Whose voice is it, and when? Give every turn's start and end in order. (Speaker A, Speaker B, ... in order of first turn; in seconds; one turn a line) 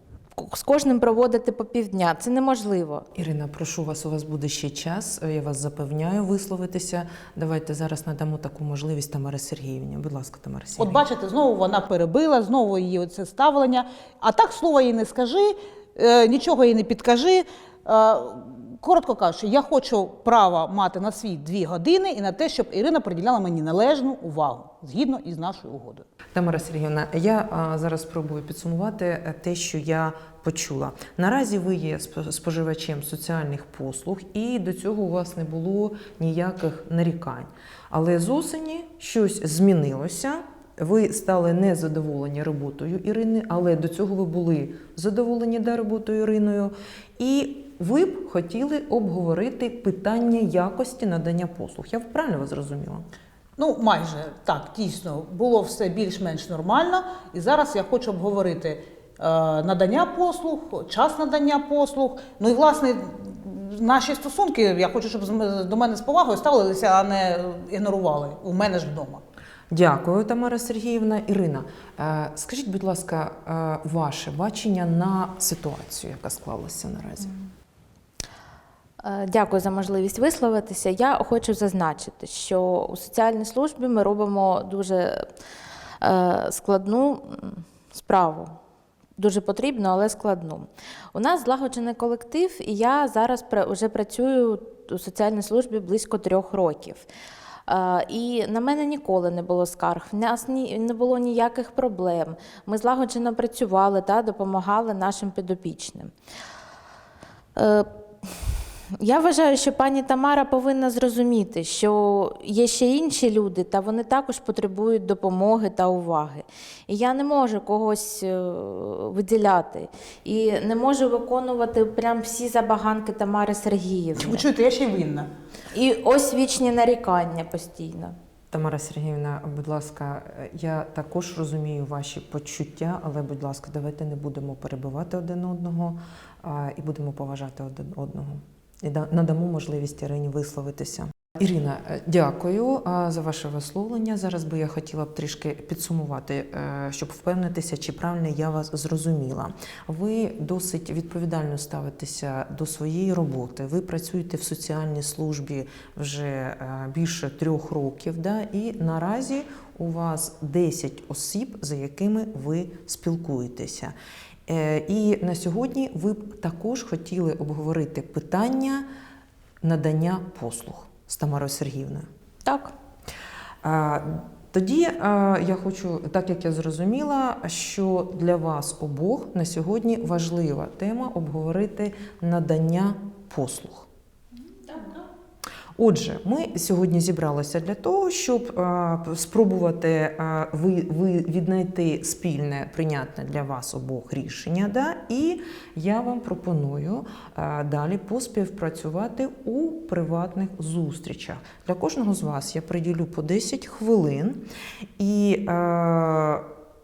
Speaker A: 0.4-3.1
Speaker B: 3.1-11.0
Speaker C: 10.8-26.1
Speaker B: 26.3-53.1
Speaker C: 53.6-69.2
Speaker B: 69.7-77.3
Speaker A: 79.0-85.3
Speaker A: 86.0-88.5
Speaker A: 89.2-97.1
Speaker A: 97.7-106.1
Speaker A: 107.6-108.3
Speaker A: 109.0-124.5
Speaker C: 124.2-125.3
Speaker A: 125.7-128.2
Speaker B: 128.5-163.9
Speaker B: 164.5-168.8
Speaker B: 169.6-172.1
Speaker A: 172.4-172.7
Speaker B: 173.6-183.9
Speaker B: 185.8-204.5
Speaker B: 205.0-206.5